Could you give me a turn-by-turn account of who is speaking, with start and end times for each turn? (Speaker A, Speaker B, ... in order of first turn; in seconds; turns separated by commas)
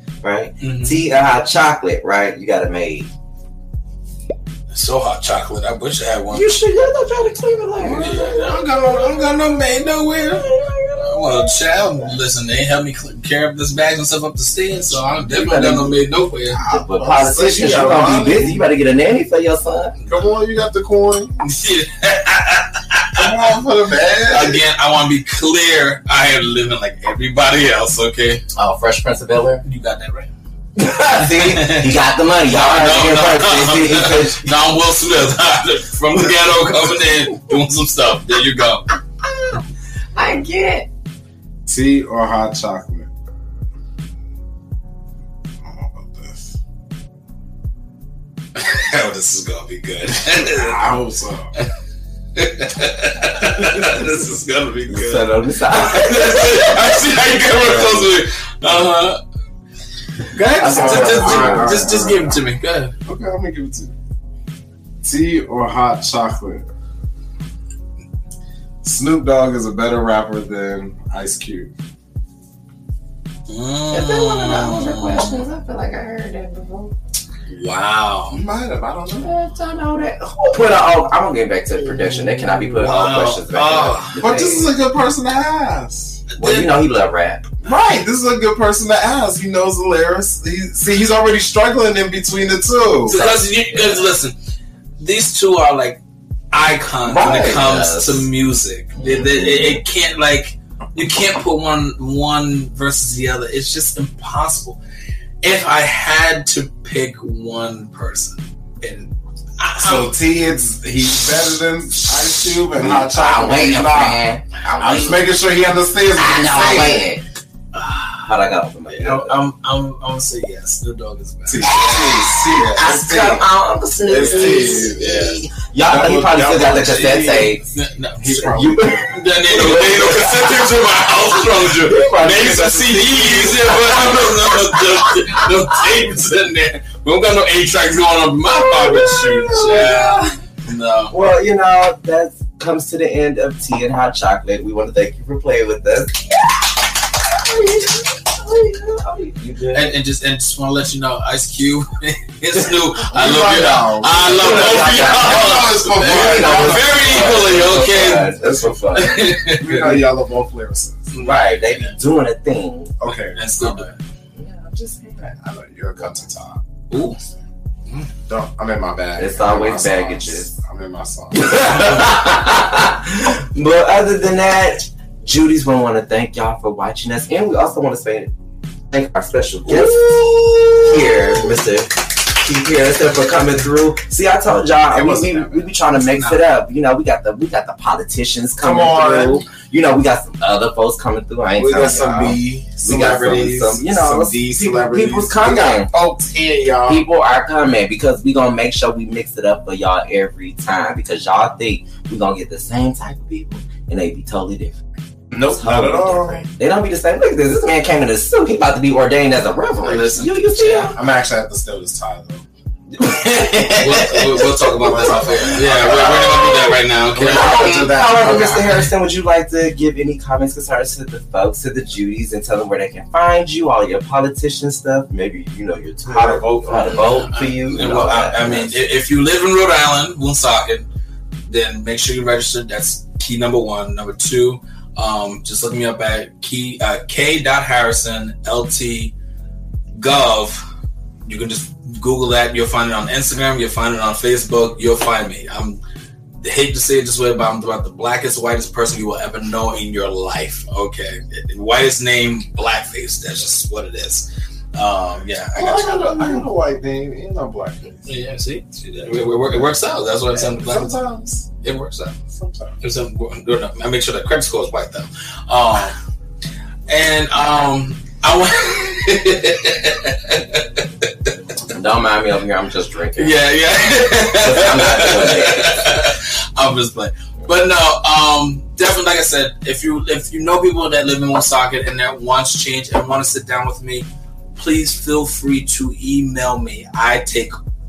Speaker A: 0.2-3.1, Speaker B: 0.6-1.0, Speaker B: 4.7-6.5, Speaker A: 6.3-9.4, Speaker C: 7.8-8.3, Speaker B: 7.8-10.5, Speaker A: 10.2-12.2, Speaker B: 11.0-16.6, Speaker A: 14.9-15.9, Speaker C: 16.5-18.6, Speaker A: 16.6-19.9, Speaker B: 20.0-20.2, Speaker C: 20.1-21.4, Speaker B: 21.4-23.6, Speaker C: 23.1-24.6, Speaker B: 24.2-28.4, Speaker A: 28.5-29.6, Speaker B: 29.6-30.3, Speaker A: 30.8-34.6, Speaker B: 31.2-38.9, Speaker A: 39.2-39.6, Speaker A: 40.1-40.9, Speaker C: 41.6-43.1, Speaker C: 45.6-46.6, Speaker B: 48.5-50.8, Speaker C: 50.3-51.5, Speaker B: 52.3-59.2, Speaker A: 53.4-54.2, Speaker A: 54.9-58.0, Speaker B: 60.2-62.9, Speaker A: 60.5-61.8, Speaker C: 60.7-62.4, Speaker C: 63.0-63.9, Speaker C: 65.0-66.7, Speaker C: 68.8-71.7, Speaker B: 73.5-75.5, Speaker A: 73.9-76.9, Speaker B: 77.5-78.4, Speaker C: 78.3-79.4, Speaker A: 79.2-84.8, Speaker B: 82.0-84.3, Speaker C: 84.2-86.2, Speaker B: 86.3-86.7, Speaker A: 86.4-87.7, Speaker C: 87.6-93.2, Speaker B: 93.0-94.4, Speaker A: 93.1-94.0, Speaker B: 95.0-96.0, Speaker B: 96.5-104.8, Speaker C: 97.0-97.7, Speaker A: 97.1-98.3, Speaker A: 99.0-99.8, Speaker B: 105.4-110.1, Speaker C: 109.8-114.2, Speaker A: 112.7-115.2, Speaker B: 114.7-115.1, Speaker C: 114.8-117.1, Speaker A: 116.2-117.2, Speaker B: 117.7-118.3, Speaker A: 118.2-119.4, Speaker B: 118.9-122.9, Speaker C: 121.5-123.5, Speaker A: 121.6-127.6, Speaker C: 124.1-125.2, Speaker B: 124.1-125.4, Speaker C: 125.8-127.5, Speaker B: 126.8-141.1, Speaker C: 128.2-129.3, Speaker A: 128.4-135.7, Speaker C: 132.3-133.5, Speaker A: 138.4-140.4, Speaker A: 141.1-146.7, Speaker A: 147.3-149.9, Speaker B: 149.7-160.1, Speaker C: 153.1-157.6, Speaker A: 154.3-159.4, Speaker C: 159.5-161.1, Speaker B: 161.1-162.0, Speaker A: 161.2-162.9, Speaker C: 163.0-163.9, Speaker B: 163.0-164.0, Speaker A: 164.3-165.4, Speaker C: 165.4-167.3, Speaker B: 166.9-167.2, Speaker C: 168.2-171.9, Speaker A: 169.2-170.6, Speaker A: 171.3-178.3, Speaker A: 178.9-195.9, Speaker C: 179.7-181.4, Speaker C: 184.9-185.7, Speaker B: 186.0-186.4, Speaker C: 188.6-189.4, Speaker C: 191.5-197.1, Speaker B: 193.0-193.2, Speaker A: 196.8-204.8, Speaker C: 205.3-206.4, Speaker A: 205.4-211.0, Speaker B: 209.8-211.0, Speaker C: 210.9-212.4, Speaker A: 212.9-228.7, Speaker B: 213.8-218.9, Speaker C: 214.5-218.9, Speaker C: 226.1-227.2, Speaker B: 226.7-230.9, Speaker B: 231.5-239.1, Speaker B: 240.0-240.6, Speaker B: 241.2-245.8, Speaker B: 246.4-256.4, Speaker C: 255.6-258.1, Speaker B: 258.1-261.0, Speaker C: 260.3-261.5, Speaker B: 261.6-262.2, Speaker C: 262.3-262.8, Speaker B: 262.8-265.9, Speaker B: 266.9-271.3, Speaker A: 271.7-273.4, Speaker B: 273.1-287.6, Speaker A: 274.3-275.8